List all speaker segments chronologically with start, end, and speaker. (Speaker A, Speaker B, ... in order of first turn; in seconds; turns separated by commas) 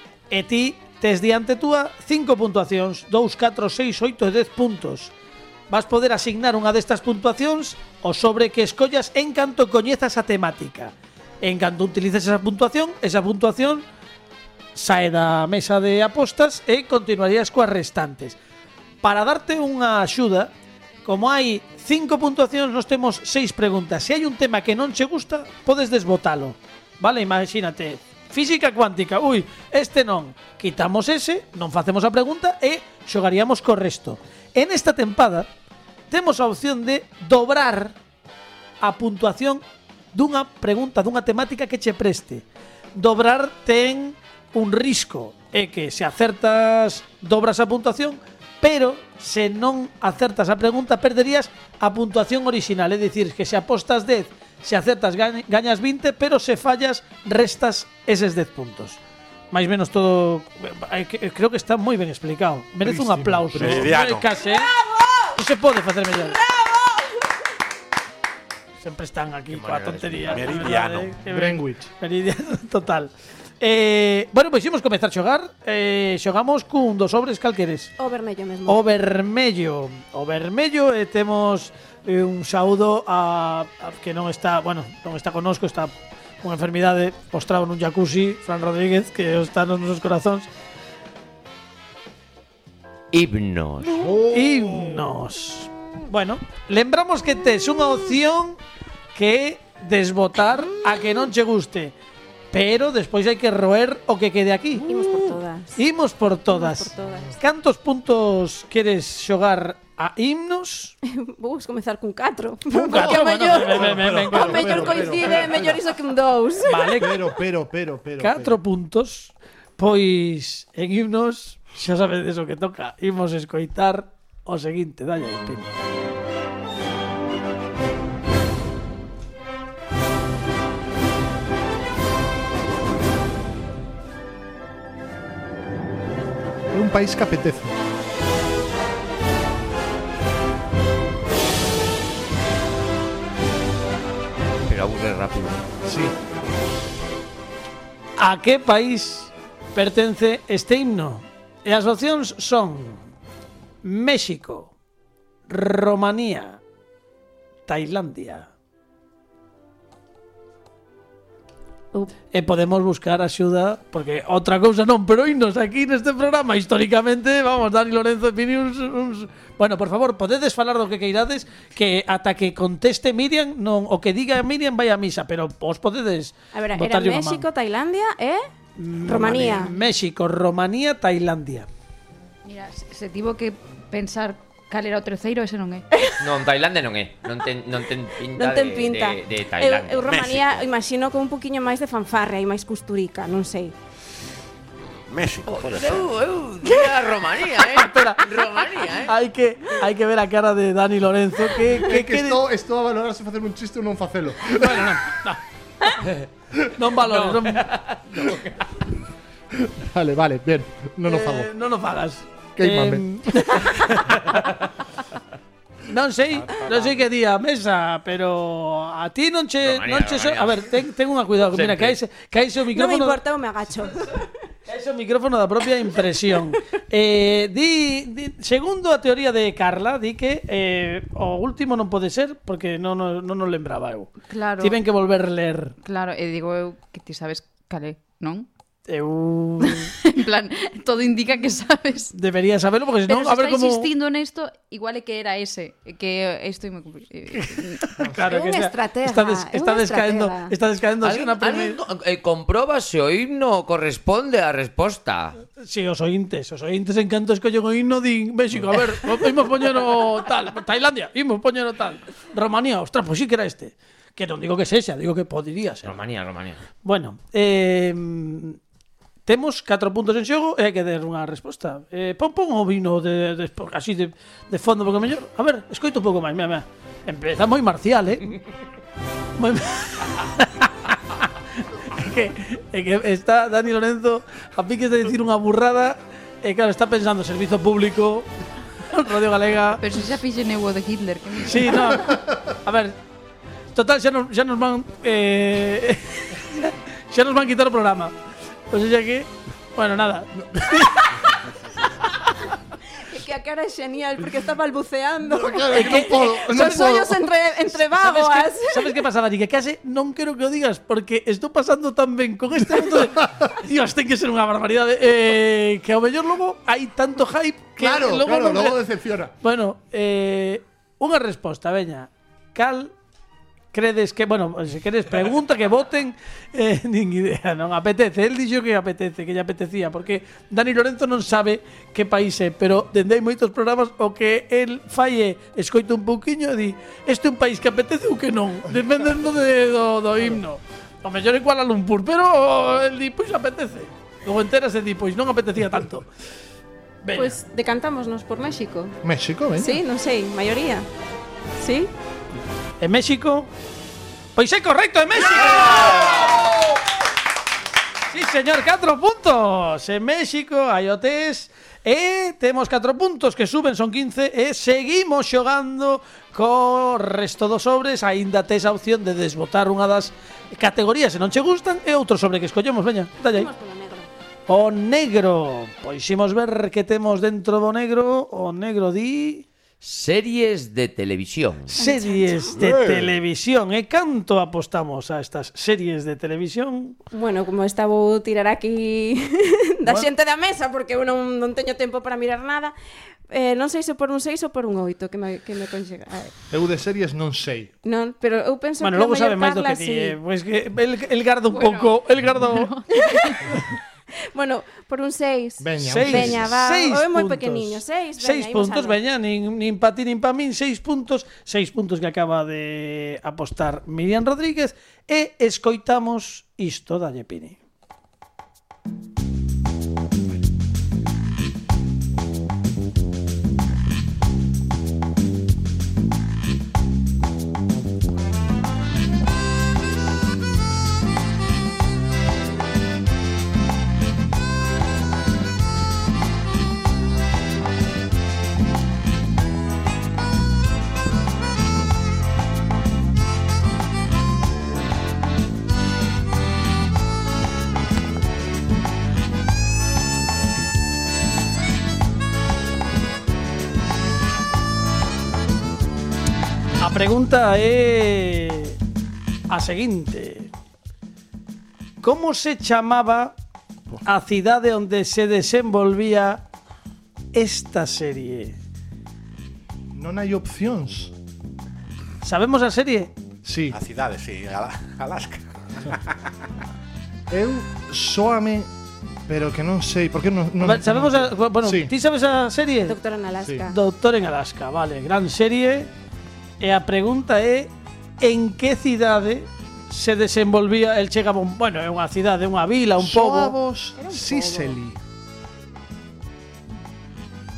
Speaker A: 0.3-5.1, Speaker A: 5.7-13.8, Speaker A: 14.8-18.4, Speaker A: 19.0-20.5, Speaker A: 21.0-35.5, Speaker A: 36.1-38.0, Speaker A: 38.8-39.6, Speaker A: 40.1-42.4, Speaker A: 43.0-59.0, Speaker A: 59.5-64.7, Speaker B: 62.8-63.9, Speaker C: 63.5-64.3, Speaker D: 64.9-65.2, Speaker A: 65.3-66.4, Speaker D: 66.3-67.2, Speaker A: 68.8-77.9, Speaker C: 69.5-71.1, Speaker E: 69.7-70.8, Speaker B: 71.3-71.9, Speaker D: 78.0-78.8, Speaker A: 78.7-90.5, Speaker E: 93.1-94.1, Speaker B: 94.0-95.1, Speaker A: 94.3-98.6, Speaker A: 99.1-101.9, Speaker A: 102.5-110.9, Speaker D: 104.9-105.8, Speaker D: 106.5-107.3, Speaker D: 111.1-117.0, Speaker A: 112.7-115.4, Speaker B: 112.8-115.9, Speaker A: 116.7-117.2, Speaker B: 117.0-118.6, Speaker A: 118.2-125.7, Speaker B: 136.7-137.7, Speaker E: 144.7-145.6, Speaker B: 145.8-146.1, Speaker A: 148.2-153.0, Speaker A: 153.8-154.7, Speaker A: 155.5-156.6, Speaker A: 157.7-158.5, Speaker A: 162.3-177.4, Speaker D: 176.5-178.4, Speaker A: 178.8-181.7, Speaker D: 179.1-179.7, Speaker F: 182.4-185.9, Speaker E: 186.2-190.2, Speaker D: 188.3-193.7, Speaker C: 190.1-190.6, Speaker C: 195.1-196.1, Speaker E: 195.5-199.1, Speaker A: 197.7-202.4, Speaker B: 201.8-205.0, Speaker A: 204.6-205.4, Speaker A: 206.8-207.7, Speaker E: 207.0-208.6, Speaker B: 209.6-211.5, Speaker A: 211.1-214.3, Speaker B: 212.6-213.5, Speaker A: 215.9-223.2, Speaker C: 216.3-217.1, Speaker E: 219.6-220.7, Speaker E: 221.5-222.0, Speaker D: 222.7-224.3, Speaker A: 224.7-235.7, Speaker F: 234.3-234.8, Speaker F: 235.8-238.5, Speaker A: 238.9-239.9, Speaker F: 239.6-242.1, Speaker A: 242.1-243.9, Speaker F: 243.1-248.0, Speaker A: 247.3-251.8, Speaker D: 248.2-250.5, Speaker E: 251.0-255.4, Speaker A: 255.6-266.0, Speaker E: 265.8-266.6, Speaker A: 266.8-268.6, Speaker A: 269.3-278.4, Speaker A: 279.4-288.3, Speaker A: 288.8-289.8, Speaker F: 289.8-292.1, Speaker A: 291.4-292.9, Speaker A: 293.7-298.1, Speaker A: 298.7-301.1, Speaker B: 300.4-300.7, Speaker D: 303.0-309.0, Speaker B: 305.2-307.2, Speaker A: 305.7-306.9, Speaker A: 307.7-318.8, Speaker B: 312.8-313.5, Speaker B: 317.8-319.3, Speaker A: 319.4-322.9, Speaker A: 323.7-346.1, Speaker A: 347.0-347.4, Speaker D: 347.1-349.0, Speaker B: 349.0-349.8, Speaker D: 349.6-350.9, Speaker D: 351.6-351.9, Speaker A: 352.8-353.5, Speaker A: 354.4-356.2, Speaker A: 358.1-373.5, Speaker D: 373.3-374.1, Speaker A: 374.5-379.4, Speaker E: 379.8-381.8, Speaker A: 381.7-386.9, Speaker D: 381.8-382.6, Speaker C: 382.6-383.1, Speaker D: 387.1-392.7, Speaker D: 393.3-396.3, Speaker B: 396.5-397.7, Speaker D: 397.8-400.1, Speaker A: 398.8-402.7, Speaker F: 401.5-403.5, Speaker D: 402.9-403.6, Speaker D: 404.3-409.0, Speaker B: 405.6-406.5, Speaker A: 405.8-417.6, Speaker A: 456.8-458.8, Speaker A: 459.5-460.5, Speaker A: 462.0-463.3, Speaker A: 464.0-466.4, Speaker A: 467.3-468.6, Speaker B: 469.9-471.1, Speaker A: 472.2-473.1, Speaker B: 473.4-473.8, Speaker C: 473.7-476.5, Speaker B: 477.3-478.7, Speaker B: 479.3-481.9, Speaker A: 480.6-482.9, Speaker D: 482.9-483.7, Speaker B: 483.4-483.7, Speaker A: 483.7-485.9, Speaker A: 486.6-493.6, Speaker B: 493.0-495.0, Speaker D: 493.9-494.8